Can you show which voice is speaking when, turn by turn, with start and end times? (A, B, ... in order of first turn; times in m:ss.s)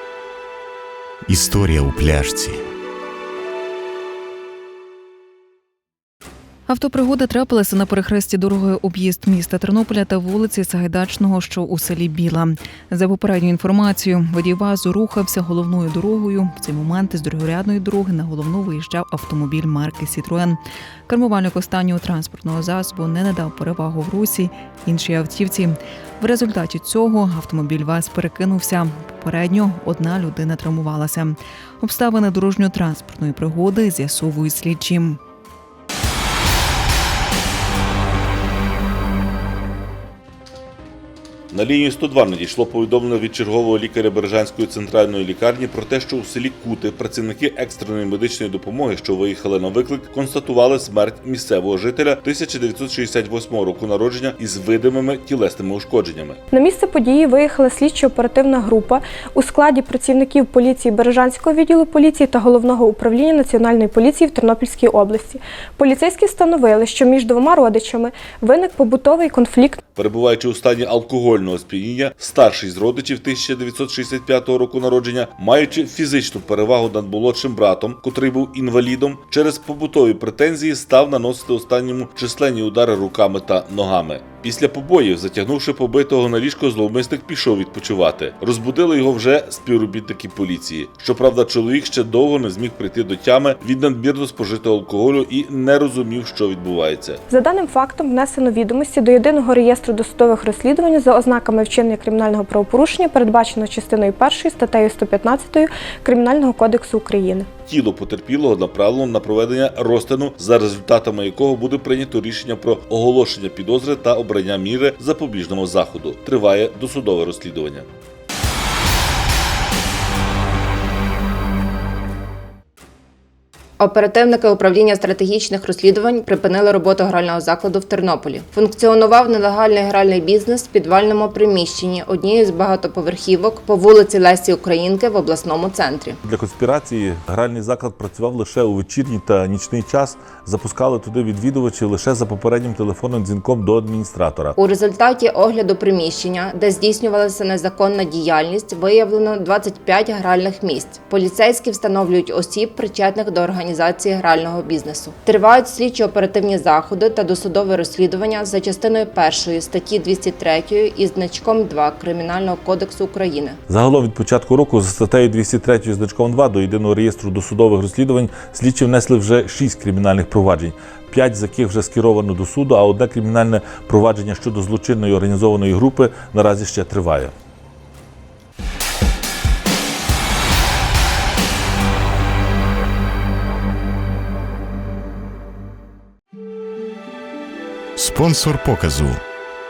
0:01.3-0:02.6 A
0:06.7-0:35.2 B
0:41.5-0:56.4 C
0:56.5-1:09.8 D
1:10.0-1:37.2 C
1:37.3-1:47.5 D
1:47.7-1:57.9 C
2:03.8-2:16.2 E
2:16.3-2:19.3 C
2:16.4-2:17.8 F
2:18.7-2:24.5 F
2:21.9-2:22.5 C
2:24.6-2:43.6 E
2:43.7-2:57.3 F
2:43.7-2:44.1 C
2:46.1-2:46.5 C
2:47.5-2:48.1 C
2:52.8-2:56.0 C
2:56.6-2:57.2 C
3:08.0-3:09.2 A